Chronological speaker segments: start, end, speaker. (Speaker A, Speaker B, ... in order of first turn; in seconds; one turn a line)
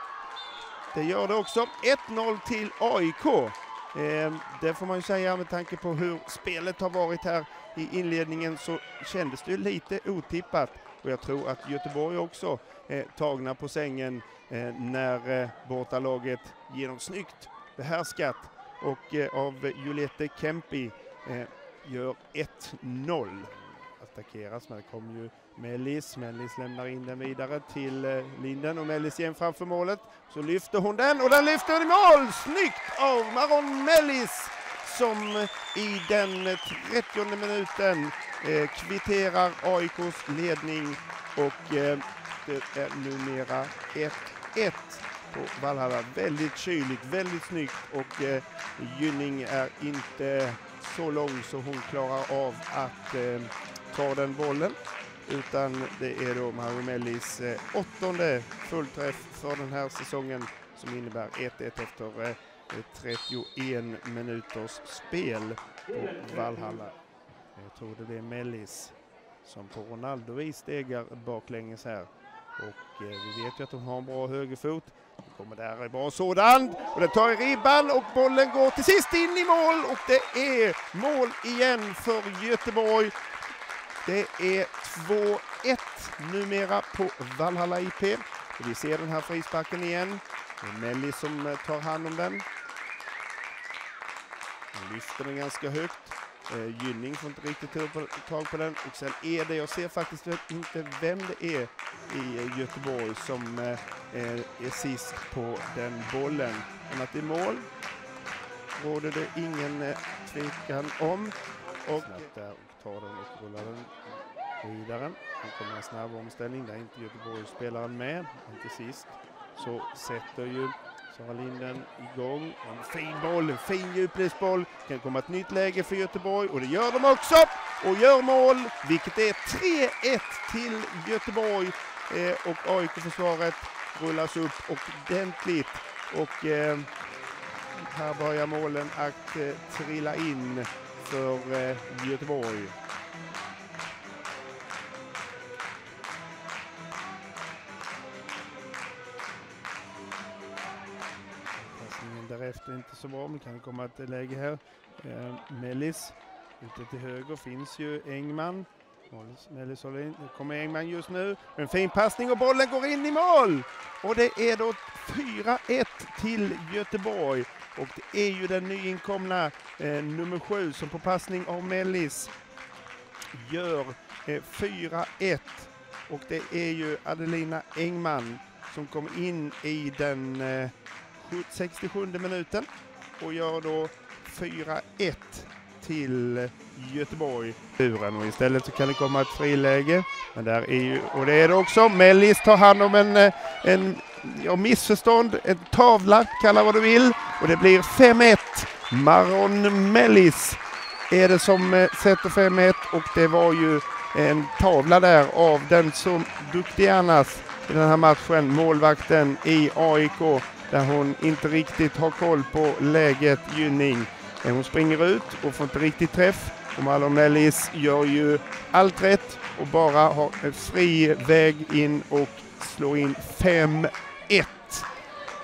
Speaker A: 0.9-66.9
Speaker A: 67.5-83.1
Speaker A: 84.0-92.5
Speaker A: 94.7-107.7
Speaker A: 108.8-114.0
Speaker A: 114.6-136.9
Speaker A: 137.7-142.8
Speaker A: 151.6-172.3
Speaker A: 173.3-224.9